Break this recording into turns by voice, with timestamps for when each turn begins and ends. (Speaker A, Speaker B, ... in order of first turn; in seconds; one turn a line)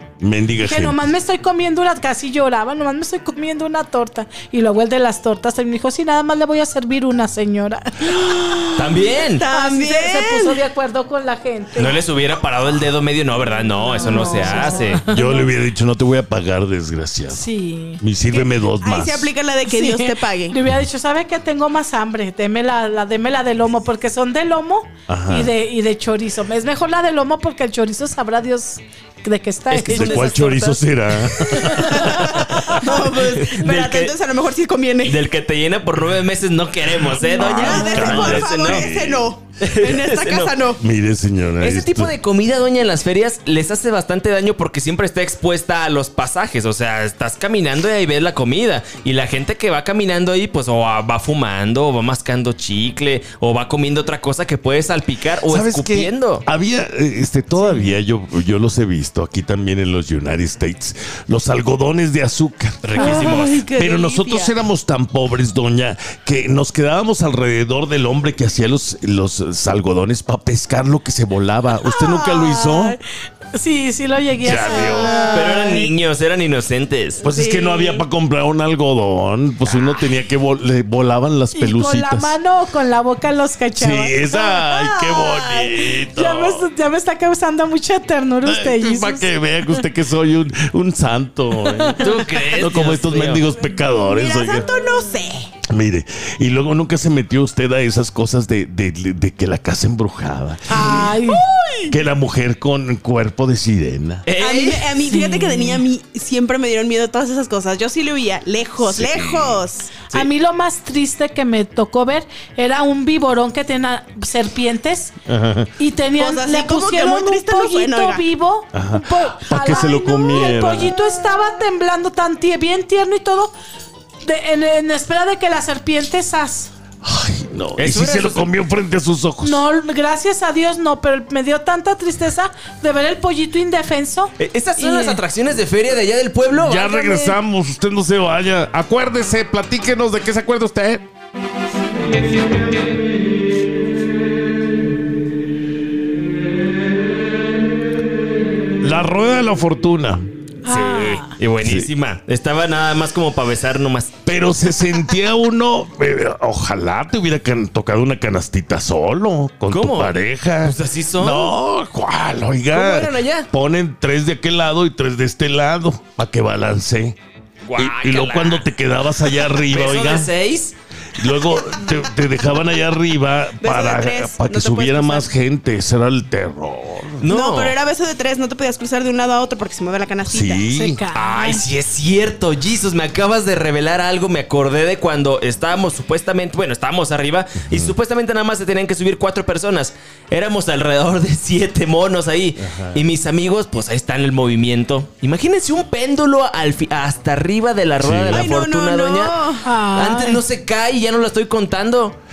Speaker A: 0.2-1.1
Speaker B: 0.6-8.7
Speaker C: 8.4-8.6
Speaker D: 8.7-9.5
Speaker C: 9.3-10.6
Speaker B: 9.5-12.0
Speaker D: 11.8-15.1
Speaker B: 14.0-15.5
Speaker C: 14.0-14.5
Speaker A: 15.0-17.5
Speaker B: 17.3-18.0
Speaker A: 18.0-19.3
Speaker C: 18.3-20.6
Speaker B: 19.7-30.6
Speaker A: 25.1-25.5
Speaker D: 29.7-30.8
Speaker A: 29.9-31.9
Speaker B: 31.4-32.8
Speaker D: 31.6-34.2
Speaker C: 31.9-35.3
Speaker D: 35.0-38.9
Speaker A: 37.0-39.3
Speaker C: 37.4-40.8
Speaker B: 37.5-38.1
Speaker D: 39.6-40.6
Speaker A: 40.8-42.2
Speaker D: 41.6-56.5
Speaker A: 55.5-73.0
Speaker D: 62.8-63.7
Speaker C: 63.0-64.5
Speaker B: 71.8-73.0
Speaker B: 73.5-75.8
Speaker A: 74.4-75.2
Speaker C: 74.8-75.9
Speaker D: 75.3-77.2
Speaker A: 77.2-82.4
Speaker C: 77.2-78.0
Speaker D: 79.7-80.1
Speaker B: 81.5-84.2
Speaker A: 83.8-86.7
Speaker C: 84.3-85.8
Speaker B: 85.8-89.8
Speaker A: 88.4-94.7
Speaker B: 91.6-92.2
Speaker D: 92.0-93.5
Speaker C: 93.9-95.5
Speaker A: 95.7-101.2
Speaker B: 100.7-101.4
Speaker A: 101.9-104.3
Speaker D: 104.3-105.0
Speaker C: 104.4-110.1
Speaker B: 105.1-105.8
Speaker A: 108.8-109.6
Speaker B: 110.1-115.1
Speaker A: 115.3-115.7
Speaker B: 115.8-123.5
Speaker C: 116.2-118.2
Speaker A: 118.7-121.0
Speaker B: 124.2-126.7
Speaker A: 127.0-129.7
Speaker D: 127.8-128.5
Speaker B: 129.4-135.2
Speaker D: 134.4-137.0
Speaker A: 136.6-141.0
Speaker B: 136.9-137.4
Speaker A: 148.8-150.2
Speaker B: 150.7-151.3
Speaker D: 150.7-154.2
Speaker A: 151.6-151.9
Speaker A: 154.3-167.2
Speaker D: 159.7-161.6
Speaker D: 162.7-163.5
Speaker D: 167.7-168.7
Speaker A: 167.8-170.3
Speaker D: 169.5-170.8
Speaker A: 171.2-177.2
Speaker C: 173.6-175.3
Speaker D: 177.2-177.8
Speaker C: 177.3-180.7
Speaker A: 180.3-181.0
Speaker B: 180.7-181.6
Speaker D: 181.1-199.4
Speaker A: 192.6-193.1
Speaker A: 198.0-198.5
Speaker C: 198.3-199.7
Speaker B: 199.6-200.4
Speaker D: 199.9-202.2